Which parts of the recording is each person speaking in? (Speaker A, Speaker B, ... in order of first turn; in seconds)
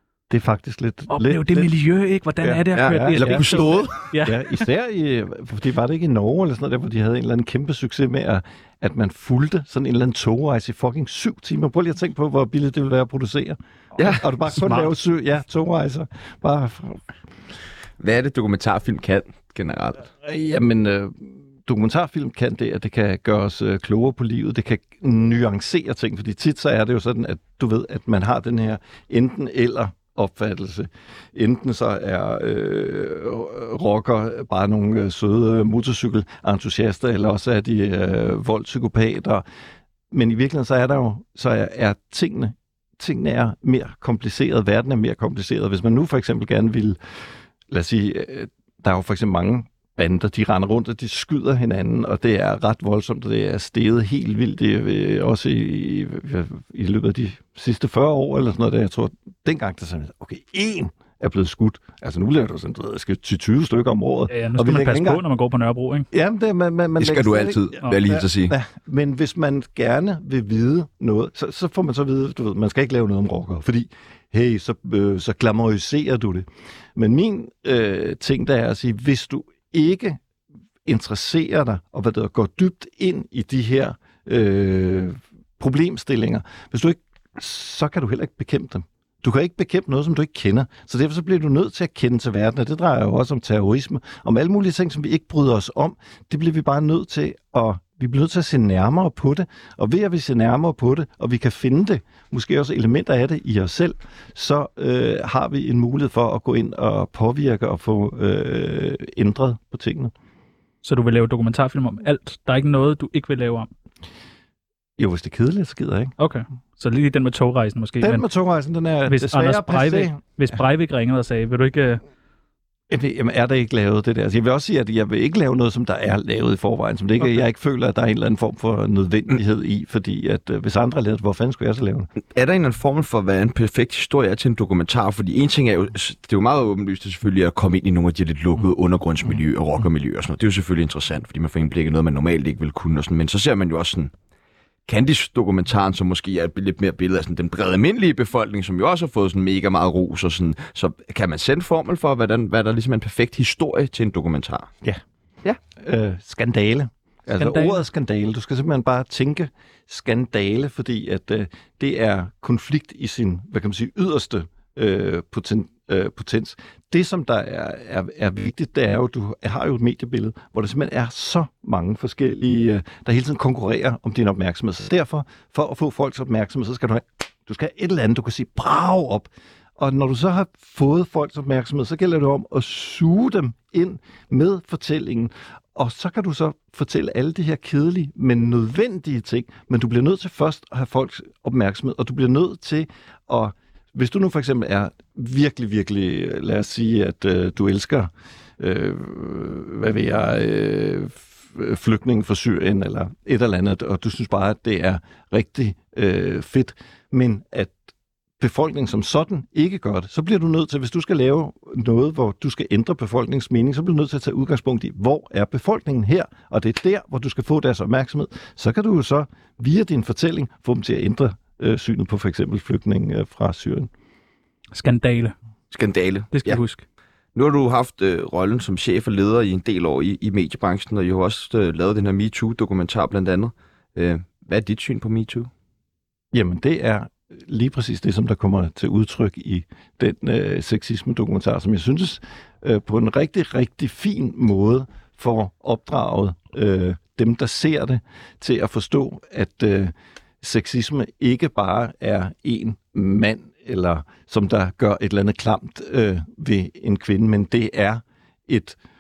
Speaker A: 0.3-1.7, 2.4-17.0, 20.2-39.4, 40.1-47.0, 47.7-65.2, 66.1-80.2, 80.8-110.1, 115.0-116.1, 118.0-120.2, 122.9-132.1, 155.7-223.9, 236.3-258.8
Speaker B: 1.1-4.6, 14.1-14.9, 64.3-66.1, 110.8-113.7, 116.2-118.2, 119.1-122.0, 157.4-157.8, 224.7-225.3, 226.3-226.8
Speaker C: 2.7-4.0, 14.0-14.7, 18.0-20.0, 67.0-68.6, 132.3-144.1, 144.9-154.7, 225.7-226.6, 227.3-235.5